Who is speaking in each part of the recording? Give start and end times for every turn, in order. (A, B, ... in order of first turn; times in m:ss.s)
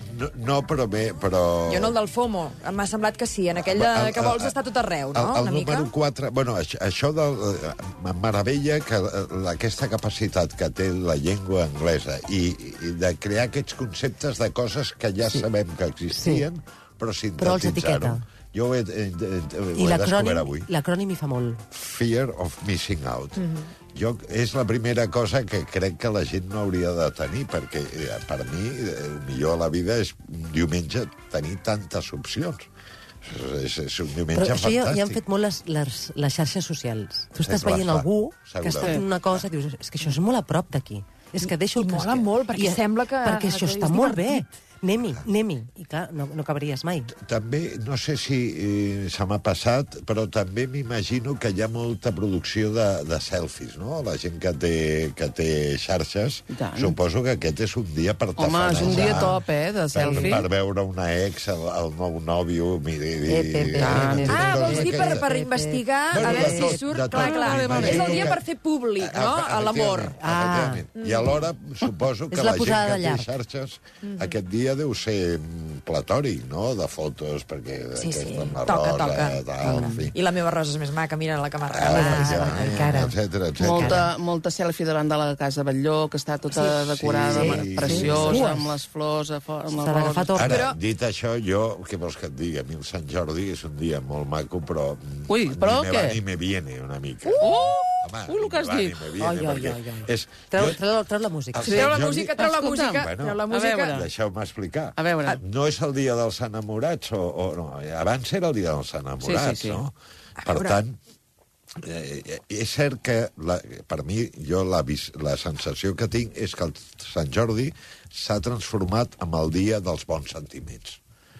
0:00.1-0:02.0 A
0:01.7-0:05.9 B
0:03.5-0:04.6 A
0:05.1-0:20.7 A
0:16.2-0:16.4 C
0:17.4-0:18.2 C
0:19.8-0:21.6 C
0:21.7-0:23.4 A
0:23.4-0:23.7 B
0:23.9-0:32.7 A
0:33.2-0:35.2 A
0:34.3-0:47.1 C
0:37.4-0:39.5 A
0:41.4-0:44.4 B
0:47.2-0:59.4 A
0:56.5-0:57.0 D
0:58.4-1:00.5 D
0:58.8-0:59.3 C
0:59.9-1:05.3 A
1:00.1-1:00.4 C
1:03.2-1:06.8 C
1:03.8-1:04.4 D
1:04.2-1:10.2 B
1:06.1-1:08.4 A
1:07.1-1:08.3 D
1:07.7-1:08.3 C
1:09.0-1:20.2 A
1:10.2-1:10.8 C
1:11.0-1:11.5 B
1:12.3-1:13.3 C
1:14.0-1:14.4 B
1:18.0-1:22.9 B
1:19.6-1:20.1 C
1:21.7-1:24.1 A
1:21.8-1:24.0 C
1:23.6-1:30.5 D
1:26.9-1:28.5 A
1:27.3-1:28.7 C
1:29.7-1:30.7 C
1:30.4-1:40.8 A
1:30.4-1:30.8 B
1:35.3-1:36.2 D
1:37.4-1:39.0 D
1:39.2-1:41.8 C
1:41.5-1:42.4 A
1:41.6-1:44.0 B
1:41.6-1:44.1 D
1:42.9-1:51.0 A
1:45.0-1:45.4 D
1:49.2-1:49.8 D
1:50.4-1:50.8 B
1:51.8-2:01.0 A